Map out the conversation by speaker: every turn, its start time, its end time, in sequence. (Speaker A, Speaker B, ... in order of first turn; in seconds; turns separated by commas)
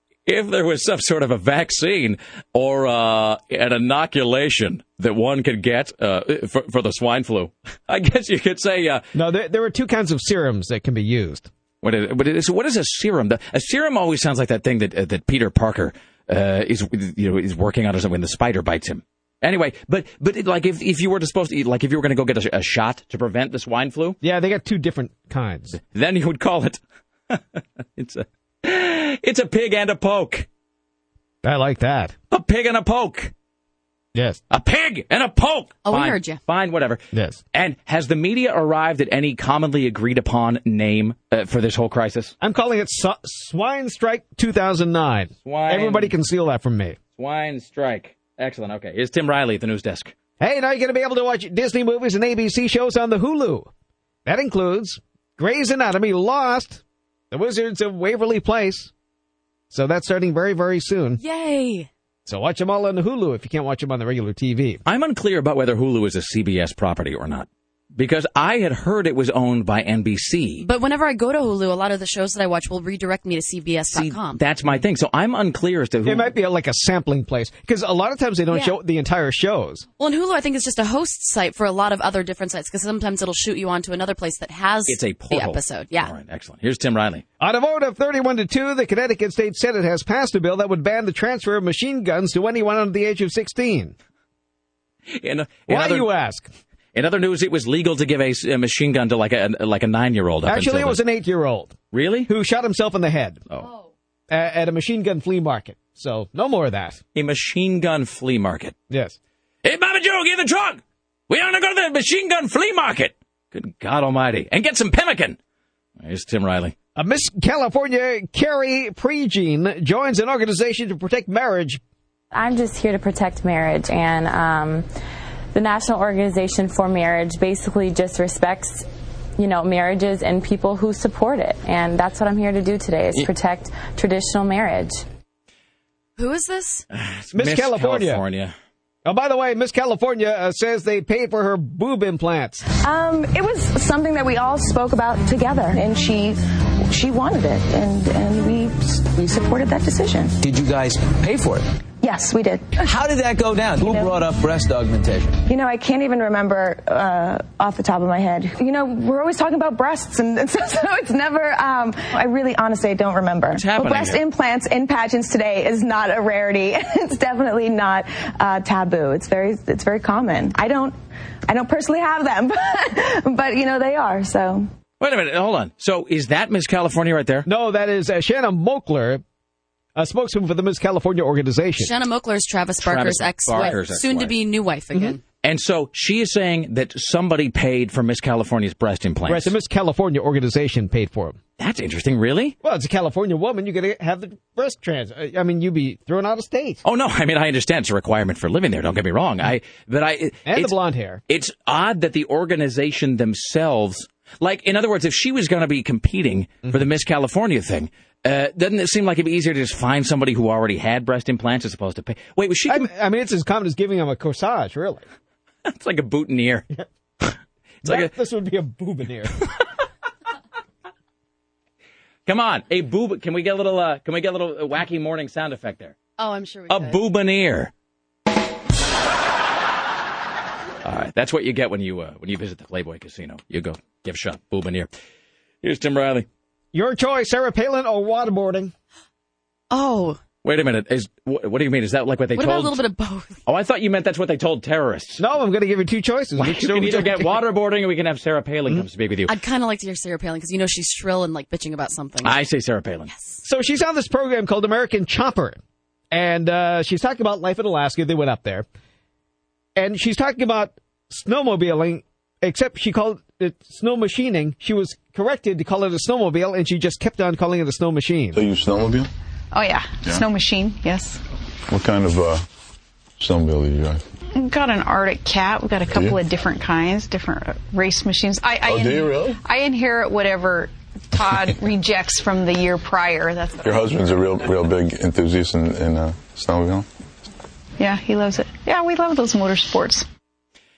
Speaker A: 0.3-9.0, Speaker B: 9.1-11.5, Speaker A: 11.8-24.2, Speaker B: 24.2-25.8, Speaker A: 25.7-26.8, Speaker A: 27.3-30.5, Speaker B: 31.4-32.1, Speaker A: 32.3-33.3, Speaker B: 34.1-34.4, Speaker A: 34.5-37.0, Speaker C: 35.9-36.4, Speaker B: 37.1-37.4, Speaker A: 37.5-42.3, Speaker B: 42.4-47.0, Speaker A: 45.5-46.1, Speaker A: 47.2-50.1, Speaker B: 50.4-53.7, Speaker B: 54.2-58.9, Speaker B: 59.7-61.2, Speaker C: 61.2-61.9, Speaker B: 62.3-64.8, Speaker A: 64.9-70.7, Speaker C: 70.6-74.4, Speaker A: 73.9-76.3, Speaker B: 76.0-79.8, Speaker C: 78.5-78.8, Speaker C: 80.0-86.1, Speaker A: 84.9-87.2, Speaker B: 87.4-94.0, Speaker A: 95.2-96.1, Speaker B: 95.7-96.5, Speaker A: 96.9-101.0, Speaker B: 100.5-103.5, Speaker A: 101.9-102.3, Speaker B: 104.3-107.0, Speaker A: 107.2-108.8, Speaker B: 108.9-109.2, Speaker A: 109.6-115.4, Speaker A: 116.0-116.8, Speaker B: 117.0-121.8, Speaker D: 122.3-124.9, Speaker D: 125.5-128.8, Speaker D: 129.4-135.0, Speaker C: 136.2-136.9, Speaker A: 136.9-138.6, Speaker B: 137.3-138.2, Speaker B: 139.1-142.6, Speaker E: 142.8-150.3, Speaker F: 150.4-151.7, Speaker E: 152.0-152.9, Speaker F: 152.9-155.3, Speaker E: 153.8-154.2, Speaker E: 155.5-170.9, Speaker A: 163.6-164.2, Speaker E: 171.5-174.7, Speaker A: 175.0-177.5, Speaker B: 177.5-179.2, Speaker B: 180.0-181.9, Speaker C: 181.8-185.2, Speaker A: 182.8-184.4, Speaker A: 185.4-189.5, Speaker B: 189.3-191.4, Speaker A: 191.6-192.6, Speaker B: 192.6-196.8, Speaker A: 196.8-200.7, Speaker B: 200.5-201.2, Speaker A: 201.3-212.9, Speaker B: 212.7-215.1, Speaker A: 215.7-216.7, Speaker B: 217.8-219.3, Speaker A: 217.8-218.1, Speaker A: 222.3-225.9, Speaker C: 226.2-227.0, Speaker A: 226.7-227.7, Speaker A: 230.8-234.9, Speaker A: 235.6-236.3, Speaker B: 236.7-238.7, Speaker C: 239.7-240.2, Speaker A: 240.4-242.8, Speaker C: 242.4-243.4, Speaker A: 243.5-245.2, Speaker B: 245.2-247.3, Speaker A: 246.4-249.3, Speaker C: 249.3-252.3, Speaker A: 252.2-253.1, Speaker B: 253.4-255.6, Speaker B: 256.1-258.7, Speaker B: 259.8-268.4, Speaker G: 268.4-269.1, Speaker H: 269.5-271.2, Speaker G: 271.7-272.5, Speaker G: 273.2-274.0, Speaker H: 274.4-283.8, Speaker G: 278.7-279.3, Speaker G: 283.6-286.9, Speaker H: 287.8-290.1